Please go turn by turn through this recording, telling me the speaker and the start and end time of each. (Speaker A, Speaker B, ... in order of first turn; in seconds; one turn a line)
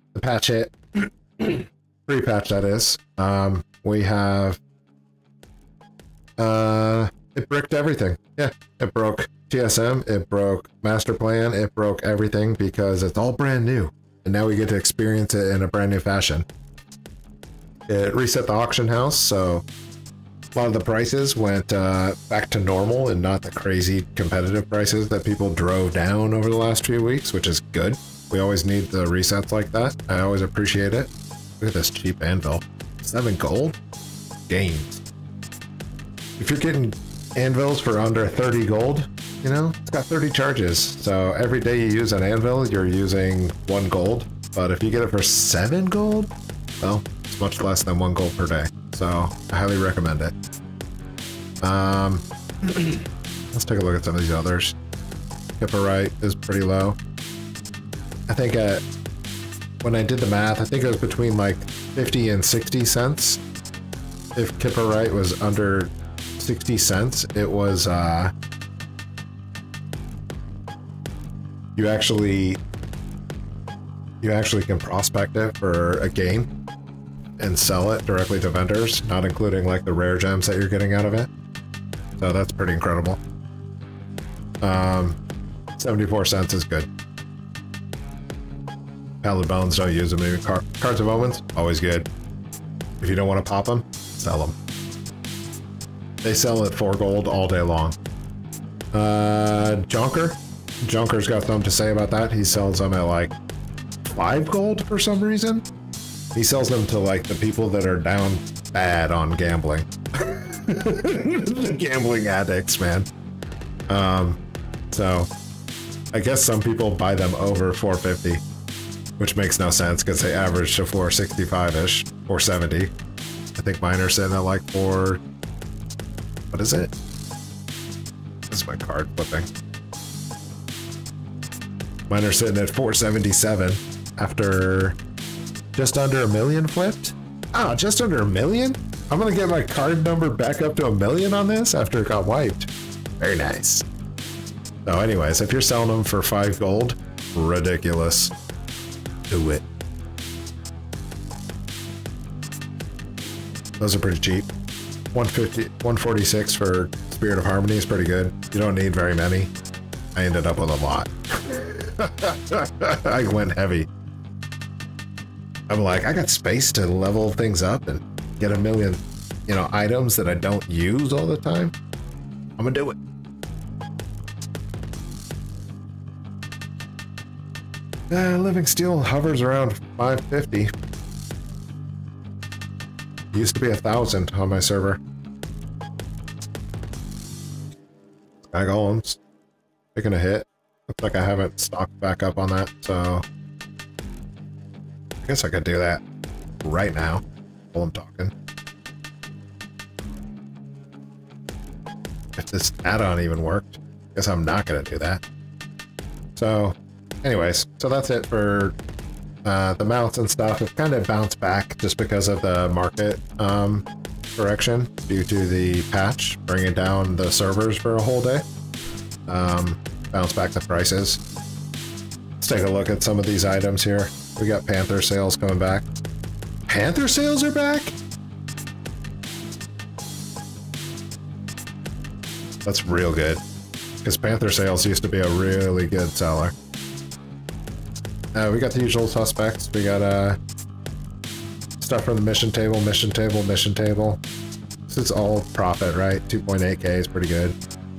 Speaker A: 0.1-4.6
Speaker A: 6.4-16.5
Speaker A: 17.9-19.6
Speaker A: 20.6-33.8
Speaker A: 34.5-35.0
Speaker A: 36.4-50.3
Speaker A: 51.6-54.8
Speaker A: 55.6-57.0
Speaker A: 58.3-58.8
Speaker A: 59.8-63.4
Speaker A: 64.3-68.3
Speaker A: 71.8-72.6
Speaker A: 74.2-76.5
Speaker A: 77.4-81.3
Speaker A: 82.2-83.2
Speaker A: 84.6-85.2
Speaker A: 85.8-86.9
Speaker A: 89.2-92.1
Speaker A: 93.0-94.6
Speaker A: 96.2-98.0
Speaker A: 98.9-103.3
Speaker A: 104.0-105.7
Speaker A: 106.3-113.1
Speaker A: 113.9-114.4
Speaker A: 114.9-115.3
Speaker A: 116.1-118.4
Speaker A: 119.2-122.9
Speaker A: 123.5-125.2
Speaker A: 126.5-126.9
Speaker A: 128.5-129.5
Speaker A: 132.1-135.0
Speaker A: 135.8-143.9
Speaker A: 144.8-148.3
Speaker A: 149.3-149.7
Speaker A: 153.8-154.5
Speaker A: 155.1-159.5
Speaker A: 160.2-163.9
Speaker A: 165.7-171.7
Speaker A: 172.6-173.0
Speaker A: 178.1-180.7
Speaker A: 183.3-185.0
Speaker A: 188.4-189.2
Speaker A: 189.9-193.2
Speaker A: 195.2-196.0
Speaker A: 196.6-198.3
Speaker A: 202.4-205.2
Speaker A: 206.3-208.8
Speaker A: 209.4-218.4
Speaker A: 219.3-221.2
Speaker A: 222.4-225.9
Speaker A: 226.7-228.0
Speaker A: 232.7-233.4
Speaker A: 234.0-236.5
Speaker A: 238.3-240.4
Speaker A: 241.8-244.2
Speaker A: 244.9-247.6